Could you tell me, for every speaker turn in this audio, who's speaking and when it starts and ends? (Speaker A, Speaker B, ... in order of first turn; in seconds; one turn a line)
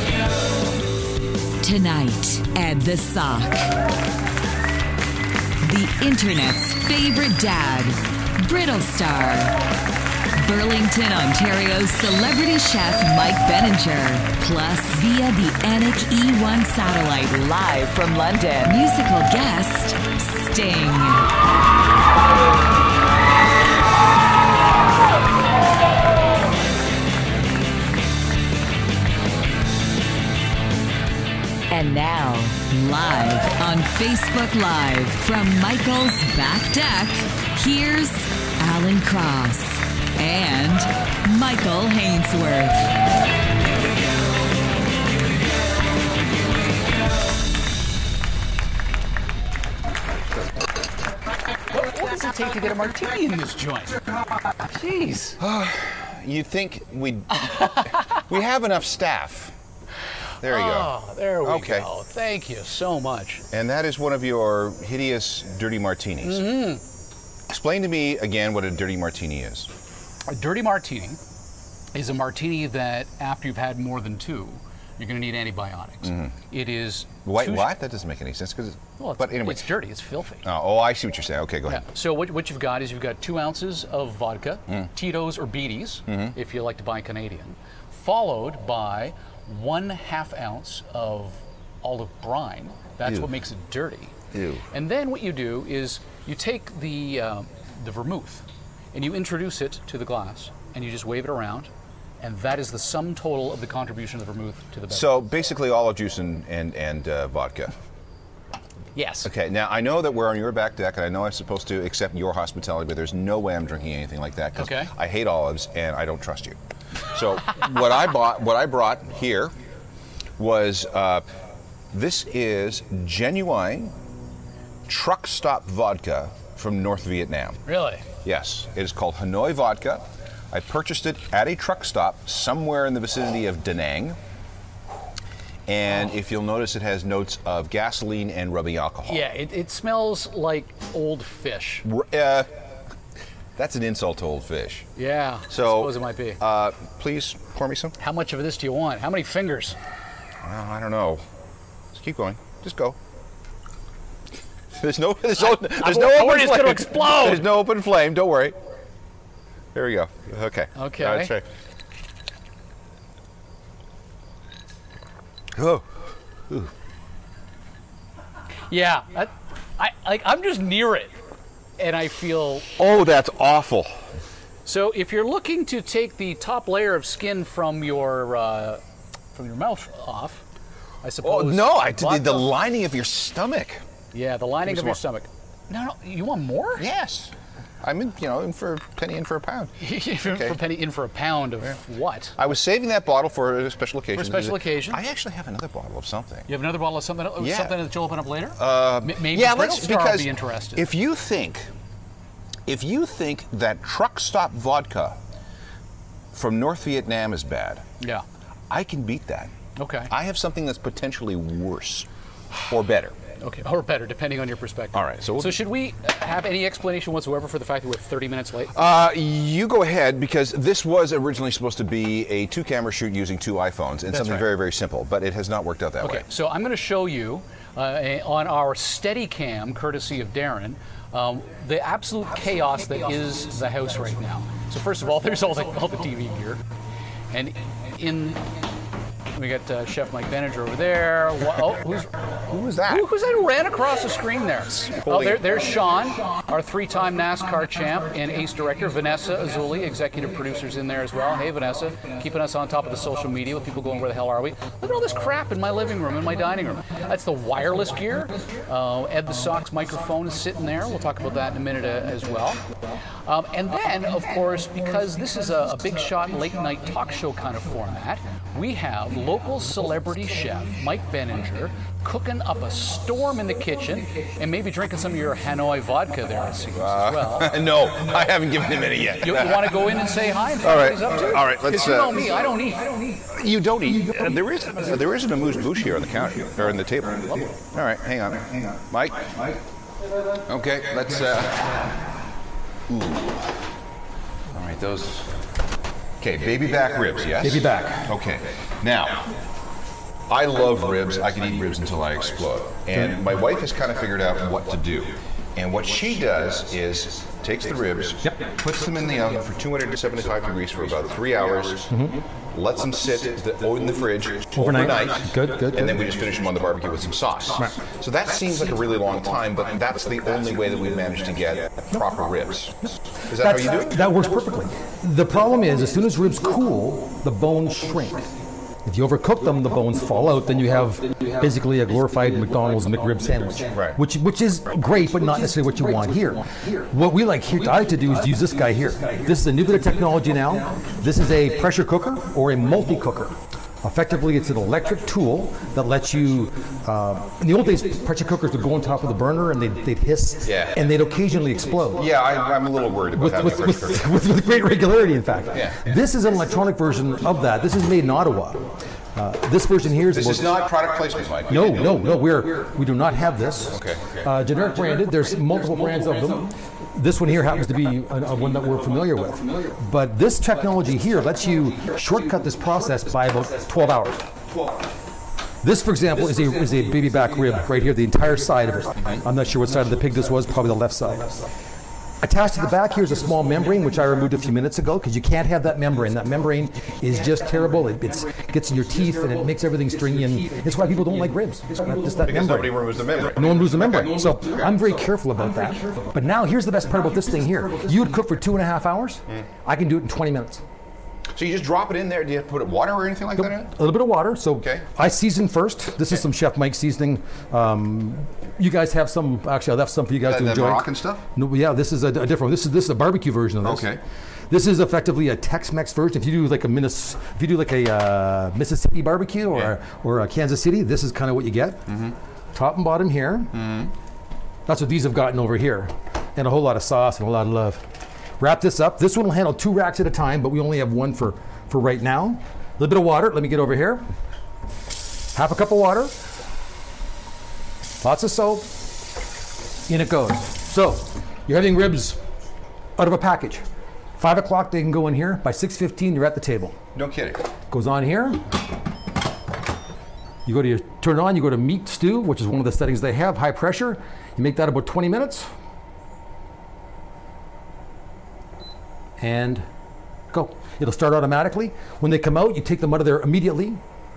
Speaker A: 1.6-3.7
Speaker A: 5.6-9.6
Speaker A: 10.4-21.3
Speaker A: 31.7-42.9
Speaker B: 51.7-54.0
Speaker B: 54.7-55.4
Speaker C: 55.4-59.5
Speaker C: 60.4-61.9
Speaker B: 60.4-63.4
Speaker C: 63.5-66.6
Speaker B: 66.2-66.8
Speaker C: 67.5-69.7
Speaker B: 70.3-71.2
Speaker B: 71.9-77.7
Speaker C: 76.0-76.3
Speaker C: 77.2-79.7
Speaker B: 79.0-80.4
Speaker C: 80.4-81.8
Speaker B: 81.7-94.1
Speaker C: 86.1-86.3
Speaker C: 93.0-93.3
Speaker C: 94.3-94.7
Speaker B: 94.7-105.2
Speaker C: 104.9-107.7
Speaker B: 108.9-109.3
Speaker C: 109.2-116.6
Speaker B: 114.6-114.9
Speaker C: 117.1-119.5
Speaker C: 120.4-121.2
Speaker C: 121.9-123.9
Speaker C: 124.9-127.6
Speaker B: 127.7-128.0
Speaker C: 128.2-134.2
Speaker C: 135.7-139.2
Speaker B: 139.1-141.8
Speaker C: 141.8-142.5
Speaker C: 143.6-144.9
Speaker B: 145.0-146.4
Speaker C: 145.5-147.9
Speaker B: 148.0-149.8
Speaker C: 150.4-151.2
Speaker C: 151.9-153.0
Speaker C: 154.7-158.6
Speaker B: 155.4-157.4
Speaker C: 159.7-161.5
Speaker B: 160.8-161.3
Speaker C: 165.5-165.8
Speaker B: 168.7-171.1
Speaker B: 171.8-172.7
Speaker C: 172.8-174.0
Speaker B: 174.7-178.8
Speaker B: 179.3-180.4
Speaker B: 181.0-182.5
Speaker C: 181.2-183.8
Speaker B: 184.1-186.8
Speaker C: 184.6-185.0
Speaker C: 186.8-190.6
Speaker B: 189.8-192.3
Speaker C: 192.4-196.5
Speaker B: 194.2-195.0
Speaker B: 196.5-200.8
Speaker C: 197.4-197.8
Speaker C: 198.6-201.7
Speaker C: 202.7-205.2
Speaker C: 206.3-207.8
Speaker C: 208.7-209.5
Speaker B: 209.8-210.1
Speaker C: 210.1-212.1
Speaker C: 212.7-213.2
Speaker B: 213.4-218.7
Speaker C: 214.9-215.6
Speaker C: 218.7-226.2
Speaker B: 224.1-224.5
Speaker B: 226.0-236.6
Speaker B: 237.3-238.5
Speaker B: 239.3-242.1
Speaker C: 242.5-243.1
Speaker B: 242.9-262.6
Speaker C: 245.0-245.5
Speaker B: 263.2-277.6
Speaker C: 276.8-279.9
Speaker B: 279.2-283.2
Speaker C: 280.6-282.4
Speaker C: 283.2-289.6
Speaker C: 290.4-292.0
Speaker C: 292.9-293.6
Speaker C: 294.5-295.3
Speaker C: 296.2-299.3
Speaker D: 297.4-298.1
Speaker C: 300.3-324.0
Speaker D: 311.9-312.2
Speaker D: 314.5-316.1
Speaker D: 323.3-328.3
Speaker D: 328.8-352.1
Speaker C: 350.4-350.8
Speaker C: 351.9-354.1
Speaker D: 353.1-360.5
Speaker C: 355.5-355.9
Speaker C: 360.1-361.9
Speaker D: 361.5-374.3
Speaker C: 363.7-364.2
Speaker D: 375.6-381.5
Speaker D: 382.2-400.6
Speaker C: 392.2-394.7
Speaker C: 401.3-403.7
Speaker D: 403.4-413.9
Speaker C: 404.6-404.8
Speaker C: 410.3-411.2
Speaker C: 413.6-414.0
Speaker D: 414.5-421.9
Speaker C: 421.9-422.1
Speaker D: 422.5-423.6
Speaker C: 423.5-423.9
Speaker D: 424.7-427.9
Speaker D: 428.4-434.1
Speaker D: 435.3-436.1
Speaker D: 438.0-438.7
Speaker D: 439.9-442.2
Speaker D: 443.0-443.6
Speaker D: 444.2-446.8
Speaker C: 446.9-447.4
Speaker D: 447.7-448.5
Speaker D: 450.4-455.5
Speaker D: 459.2-459.6
Speaker D: 460.3-463.8